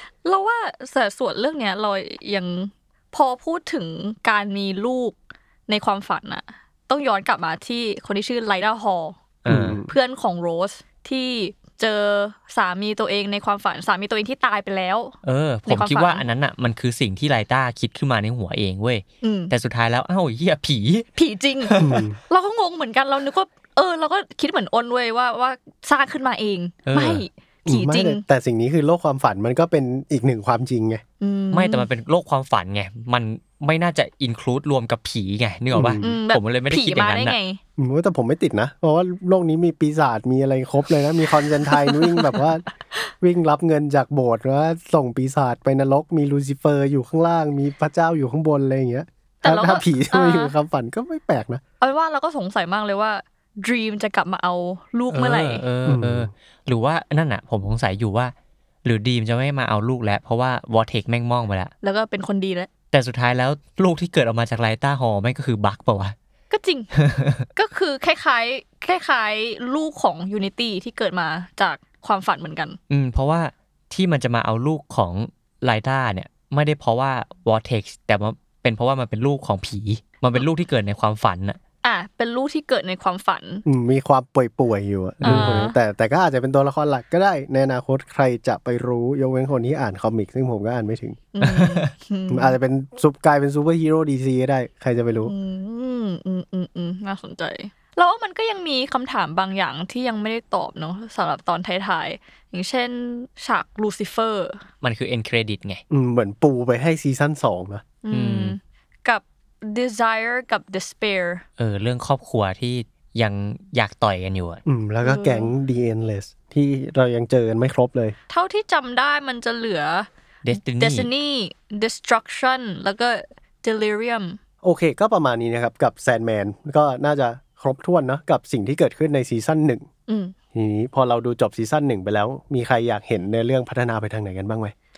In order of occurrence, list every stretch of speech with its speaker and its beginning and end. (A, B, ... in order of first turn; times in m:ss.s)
0:00.2-0:09.2 A
0:09.4-0:09.8 B
0:09.5-0:09.9 C
0:09.9-0:15.2 A
0:15.2-0:21.1 B
0:15.7-0:16.3 A
0:19.2-0:19.5 A
0:21.2-0:21.8 A
0:21.6-0:22.0 B
0:21.8-0:22.2 C
0:22.3-0:28.2 A
0:26.9-0:27.2 B
0:27.7-0:31.0 C
0:31.2-0:31.9 A
0:31.5-0:37.4 B
0:35.7-0:36.2 C
0:36.0-0:37.6 A
0:37.8-0:42.6 C
0:41.7-0:42.4 A
0:43.2-0:51.6 C
0:49.4-0:50.6 A
0:51.8-0:55.7 A
0:55.1-0:58.3 B
0:55.8-0:56.3 C
0:58.8-1:01.7 B
1:01.8-1:02.7 A
1:02.9-1:06.2 B
1:06.5-1:06.9 A
1:06.9-1:07.5 B
1:07.6-1:12.8 A
1:12.9-1:21.6 B
1:21.8-1:23.6 A
1:23.7-1:31.2 C
1:25.2-1:25.8 A
1:25.2-1:25.6 B
1:31.4-1:32.6 A
1:31.4-1:31.9 B
1:32.3-1:35.3 C
1:35.2-1:44.6 A
1:44.8-1:45.8 B
1:45.9-1:47.8 C
1:48.0-1:51.4 A
1:48.1-1:48.6 B
1:51.6-1:54.6 B
1:54.7-1:58.2 C
1:55.0-1:55.5 A
1:58.3-2:04.4 A
2:00.4-2:01.1 B
2:04.6-2:09.9 C
2:10.1-2:10.3 A
2:10.5-2:14.7 C